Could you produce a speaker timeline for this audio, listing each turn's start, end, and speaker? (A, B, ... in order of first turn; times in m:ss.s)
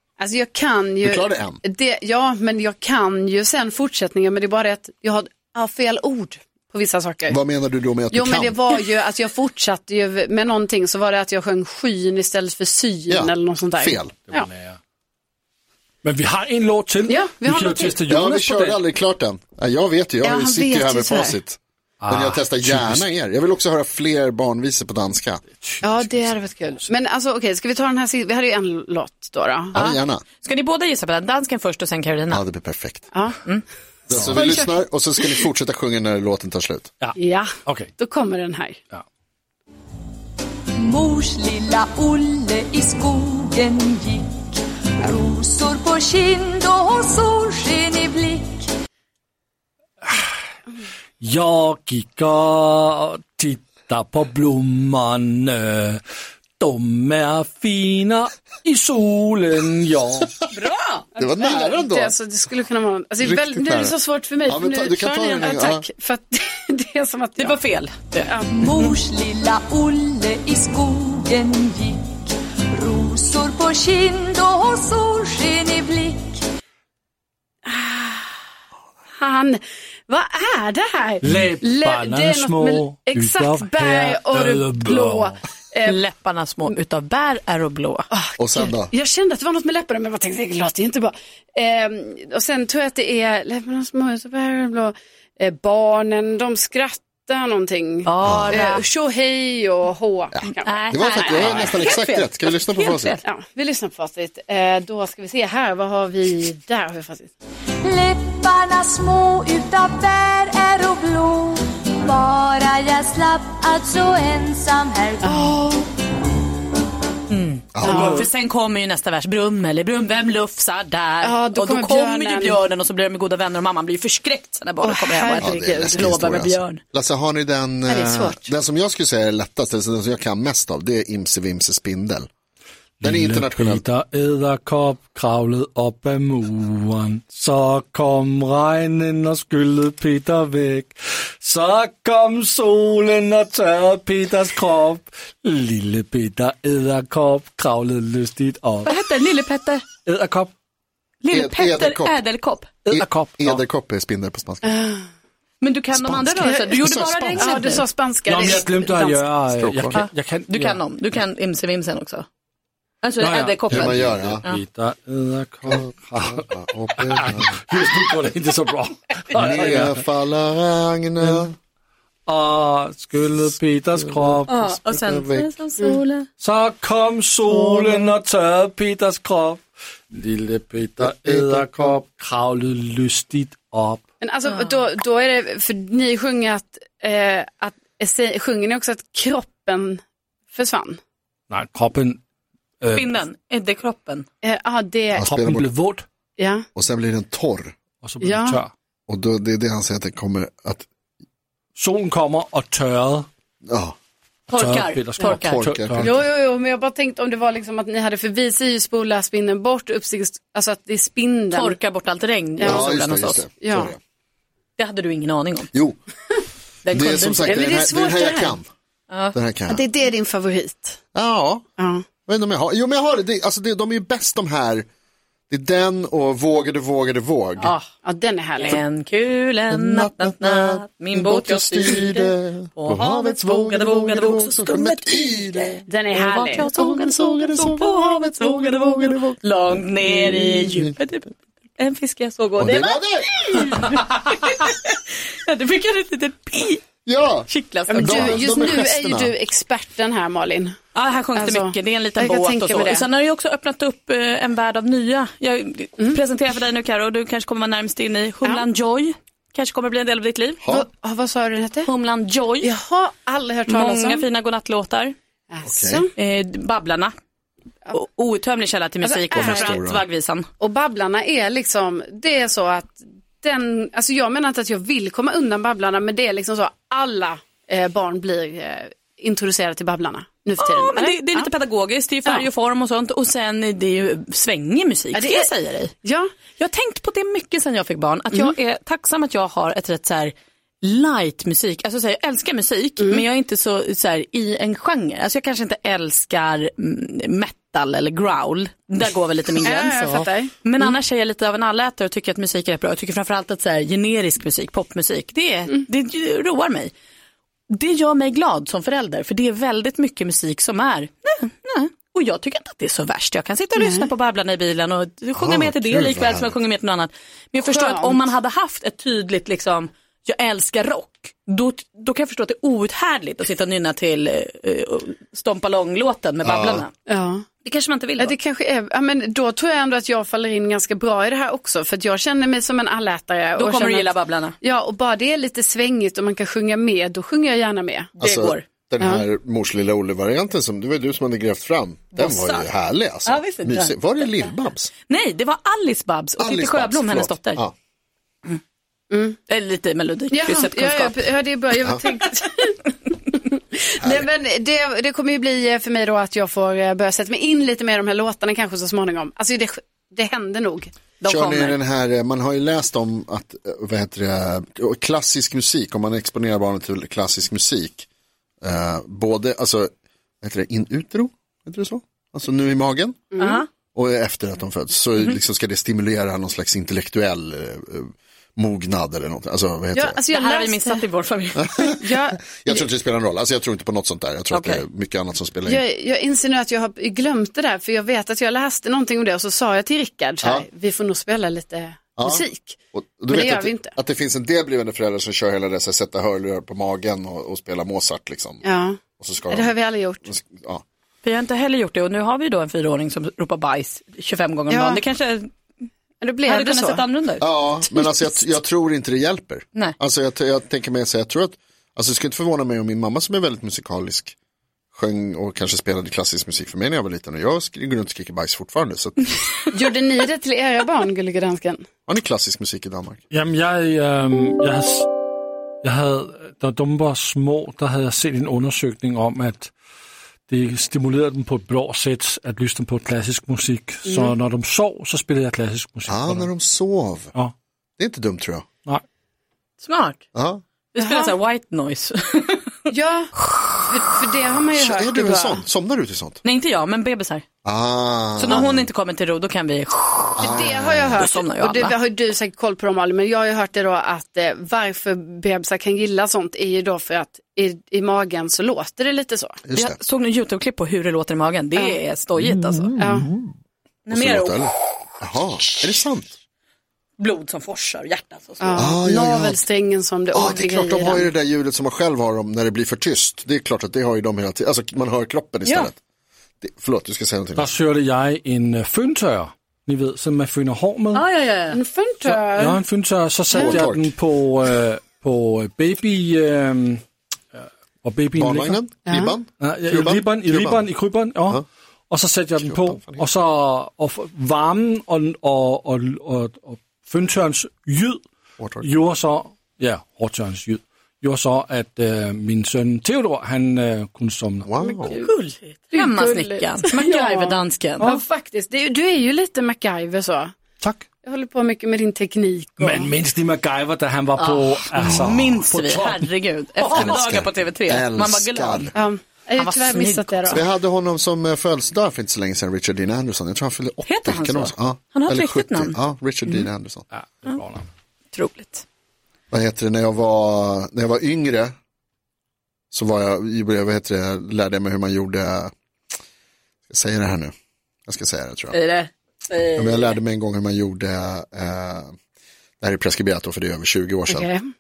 0:00.2-0:07.4 A
0:01.0-0:01.6 B
0:07.3-0:08.6 B
0:08.1-0:14.5 A
0:13.1-0:14.2 B
0:14.3-0:14.8 C
0:16.0-0:18.8 C
0:17.1-0:18.0 A
0:18.1-0:25.4 B
0:20.2-0:21.4 A
0:22.0-0:23.1 C
0:25.5-0:26.9 C
0:25.8-0:29.8 A
0:29.7-0:30.2 B
0:29.7-0:32.4 D
0:32.3-0:33.1 B
0:33.1-0:33.4 A
0:34.1-0:36.9 B
0:34.1-0:34.4 C
0:34.1-0:34.7 A
0:37.0-0:37.9 C
0:37.2-0:38.8 A
0:40.8-0:48.7 E
0:51.2-0:56.0 C
0:56.6-1:00.3 C
1:00.5-1:01.1 D
1:01.2-1:07.6 A
1:01.2-1:02.2 B
1:03.2-1:04.0 B
1:04.5-1:05.8 B
1:07.4-1:08.3 D
1:08.2-1:08.5 A
1:08.5-1:16.4 E
1:17.7-1:18.4 A
1:19.2-1:26.0 A
1:21.2-1:25.4 C
1:25.9-1:28.1 D
1:28.1-1:41.7 A
1:28.4-1:28.9 B
1:38.0-1:38.8 D
1:38.2-1:38.8 B
1:40.3-1:43.2 B
1:40.6-1:43.2 D
1:43.2-1:47.3 A
1:47.8-1:55.6 E
1:55.2-1:55.9 A
1:57.3-2:06.8 D
1:57.7-1:58.3 B
1:57.8-1:58.3 A
2:01.2-2:02.6 A
2:04.8-2:06.1 A
2:05.4-2:12.3 B
2:07.9-2:08.5 A
2:13.0-2:28.9 C
2:13.0-2:13.8 B
2:28.8-2:29.8 D
2:30.1-2:30.5 C
2:31.2-2:32.7 D
2:31.3-2:32.2 B
2:32.8-2:33.6 C
2:32.9-2:34.8 B
2:34.6-2:35.0 A
2:35.6-2:37.8 D
2:35.9-2:37.7 B
2:36.4-2:36.7 A
2:37.3-2:39.3 A
2:38.3-2:40.8 C
2:39.5-2:40.0 B
2:39.9-2:42.3 D
2:43.0-2:44.6 D
2:43.2-2:50.0 C
2:43.7-2:44.4 B
2:45.7-2:47.6 B
2:49.3-2:51.5 B
2:52.3-2:54.7 C
2:54.0-2:55.5 B
2:54.5-2:56.3 D
2:56.4-2:59.6 C
3:00.1-3:04.0 C
3:01.0-3:02.0 B
3:04.2-3:10.0 A
3:10.5-3:11.0 A
3:11.5-3:12.2 C
3:12.8-3:13.2 C
3:12.9-3:14.3 D
3:14.4-3:15.2 A
3:15.2-3:15.7 B
3:15.2-3:16.0 C
3:16.4-3:16.6 A
3:16.8-3:17.7 B
3:18.0-3:18.7 C
3:18.2-3:18.6 A
3:19.1-3:20.9 B
3:21.8-3:23.3 C
3:23.6-3:24.0 B
3:24.5-3:25.6 D
3:24.5-3:26.2 C
3:25.2-3:26.1 B
3:26.0-3:31.8 A
3:31.5-3:33.4 D
3:32.6-3:32.9 A
3:32.6-3:34.0 B
3:33.6-3:33.9 A
3:34.8-3:35.7 D
3:35.7-3:36.0 B
3:36.8-3:37.7 D
3:36.9-3:38.7 B
3:37.5-3:38.6 A
3:39.1-3:39.4 D
3:39.3-3:39.8 B
3:39.7-3:41.0 A
3:41.2-3:41.6 B
3:41.8-3:42.0 A
3:42.3-3:44.9 B
3:45.5-3:47.8 B
3:47.6-3:47.9 D
3:48.0-3:48.8 A
3:48.6-4:06.8 D
3:49.7-3:59.4 B
3:55.9-3:56.7 A
4:00.0-4:01.0 B
4:02.6-4:03.8 B
4:07.1-4:09.3 B
4:07.5-4:08.7 D
4:07.9-4:10.8 A
4:10.9-4:20.6 D
4:11.3-4:13.1 A
4:20.7-4:21.9 A
4:21.8-4:22.7 D
4:22.6-4:24.2 A
4:23.7-4:25.2 D
4:25.5-4:26.1 A
4:25.7-4:26.1 B
4:26.2-4:27.1 D
4:27.9-4:30.5 D
4:29.0-4:29.8 A
4:29.3-4:30.0 B
4:30.6-4:41.5 A
4:40.6-4:45.9 D
4:45.1-4:46.3 A
4:46.6-5:06.9 D
4:59.6-5:00.9 A
5:07.7-5:26.9 D
5:13.8-5:14.1 A
5:15.4-5:16.6 B
5:17.7-5:18.3 A
5:26.4-5:26.8 B
5:27.1-5:27.4 A
5:27.6-5:28.4 D
5:28.2-5:38.1 A
5:33.6-5:34.6 D
5:38.2-5:38.6 D
5:38.2-5:44.9 B
5:42.1-5:42.7 D
5:43.2-5:44.5 D
5:45.1-5:47.6 D
5:46.4-5:47.7 B
5:49.1-5:49.4 A
5:49.5-5:51.2 D
5:50.3-5:52.8 A
5:53.3-6:00.9 A
5:54.0-5:54.3 B
6:01.2-6:01.8 D
6:01.2-6:08.1 B
6:08.6-6:09.9 B
6:10.4-6:13.2 B
6:13.3-6:13.6 A
6:13.4-6:13.7 D
6:13.9-6:20.2 B
6:19.9-6:21.0 A
6:20.3-6:22.0 D
6:21.6-6:25.8 B
6:22.0-6:22.8 A
6:24.5-6:24.8 D
6:25.6-6:32.8 A
6:32.2-6:38.6 B
6:33.3-6:33.9 A
6:38.6-6:40.3 A
6:39.2-6:40.8 B
6:41.2-6:45.5 D
6:44.7-6:45.0 A
6:46.2-6:47.1 A
6:46.4-6:47.4 D
6:47.4-6:54.4 B
6:47.9-6:48.2 A
6:54.9-6:59.3 B
6:59.7-7:01.8 A
7:02.1-7:03.2 B
7:03.3-7:05.1 C
7:05.8-7:09.7 C
7:10.5-7:16.5 C
7:14.0-7:14.3 A
7:16.1-7:17.3 B
7:18.0-7:18.6 B
7:19.8-7:20.2 D
7:20.3-7:20.6 B
7:20.9-7:22.7 D
7:21.0-7:21.4 A
7:22.9-7:25.6 A
7:24.7-7:26.4 B
7:26.4-7:27.4 D
7:27.6-7:28.9 B
7:28.4-7:30.6 D
7:30.4-7:31.2 B
7:30.4-7:39.6 A
7:31.2-7:32.0 D
7:39.6-7:40.0 B
7:39.7-7:42.9 D
7:42.4-7:43.5 B
7:43.0-7:43.3 A
7:44.1-7:44.9 D
7:44.1-7:46.4 B
7:47.2-7:48.9 D
7:48.6-7:51.3 A
7:48.8-7:49.6 B
7:50.3-7:56.0 B
7:56.6-7:57.7 B
7:57.6-8:01.2 C
8:01.1-8:01.8 D
8:01.7-8:02.8 A
8:02.2-8:07.0 C
8:03.5-8:03.8 A
8:03.5-8:04.1 B
8:07.5-8:08.8 C
8:08.4-8:10.9 B
8:09.1-8:09.3 A
8:09.6-8:18.2 C
8:12.6-8:13.3 B
8:18.6-8:18.9 B
8:18.8-8:24.9 C
8:24.6-8:25.2 B
8:25.1-8:28.1 D
8:25.9-8:30.6 A
8:30.8-8:31.1 C
8:31.2-8:33.1 A
8:32.8-8:37.2 C
8:34.4-8:38.9 D
8:35.0-8:35.4 B
8:36.9-8:39.0 B
8:39.0-8:40.6 A
8:39.6-8:40.6 D
8:40.5-8:47.1 B
8:44.0-8:46.0 D
8:47.1-8:47.9 C
8:48.3-8:48.8 D
8:49.5-8:51.7 B
8:52.9-8:55.7 B
8:56.9-8:57.5 B
8:58.1-8:58.8 B
8:58.7-9:00.2 D
8:59.8-9:02.1 B
9:02.8-9:04.5 B
9:04.3-9:04.6 A